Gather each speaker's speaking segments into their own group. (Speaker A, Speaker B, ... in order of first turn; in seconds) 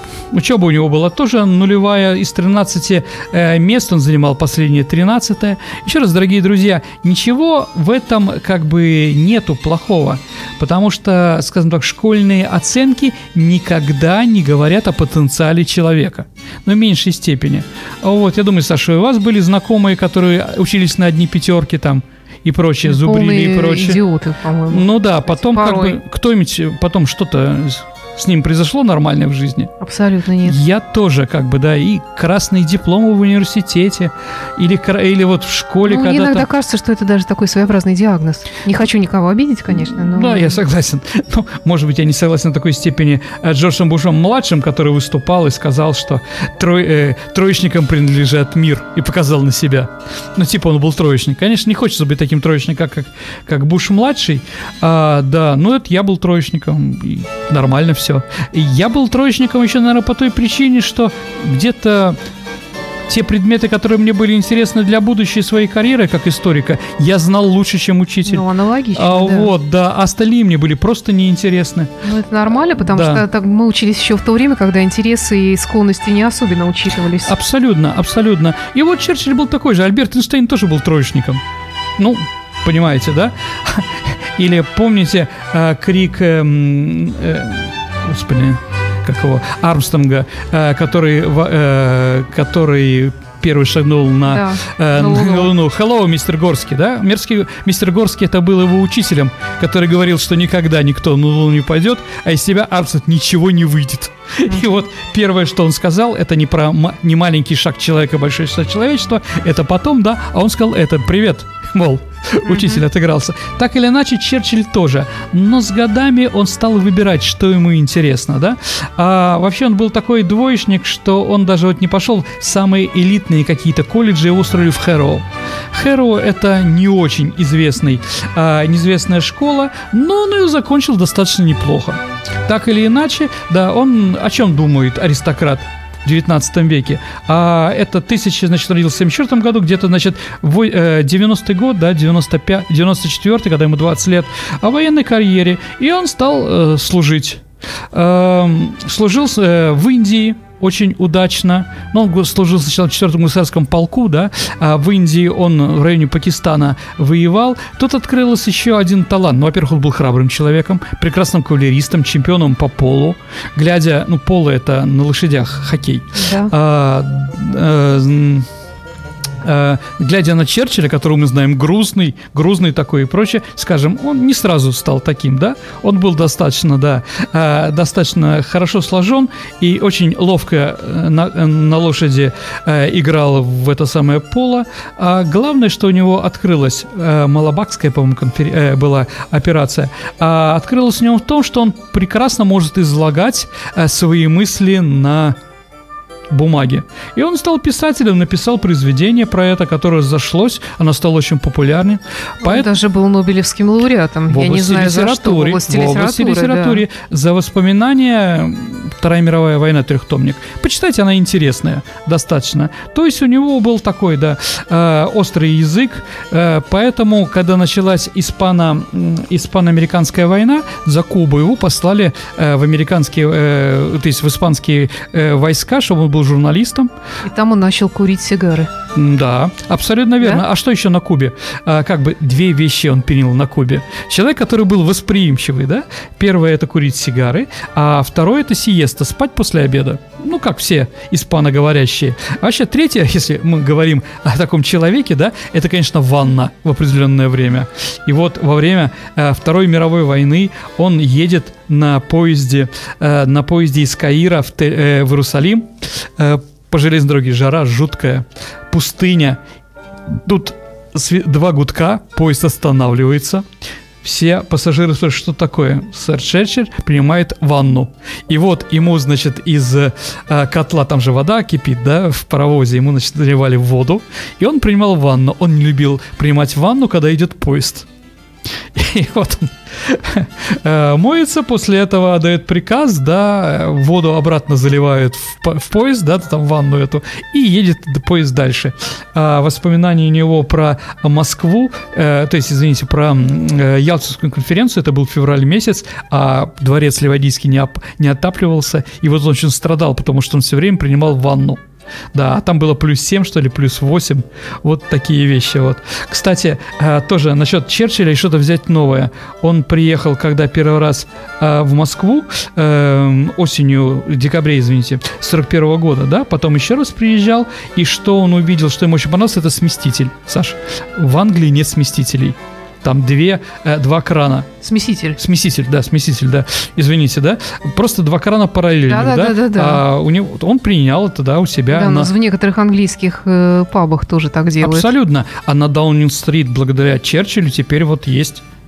Speaker A: 0.3-24.0, 24.7-29.7, 30.4-36.5, 39.7-62.2, 63.1-71.9, 72.8-73.2, 77.2-81.4, 82.0-168.5, 169.4-195.4, 196.3-202.7, 204.3-226.9, 228.9-259.4, 260.1-263.4, 264.0-277.9, 278.7-301.6, 302.1-324.5, 325.2-332.1, 334.6-338.4
Speaker B: 22.9-26.0, 29.8-30.6, 35.9-40.5, 68.2-69.5, 72.0-77.3, 94.3-95.5, 112.5-112.8, 166.2-166.5, 202.4-206.8, 227.2-228.7, 324.6-325.2, 328.9-329.8, 331.7-334.9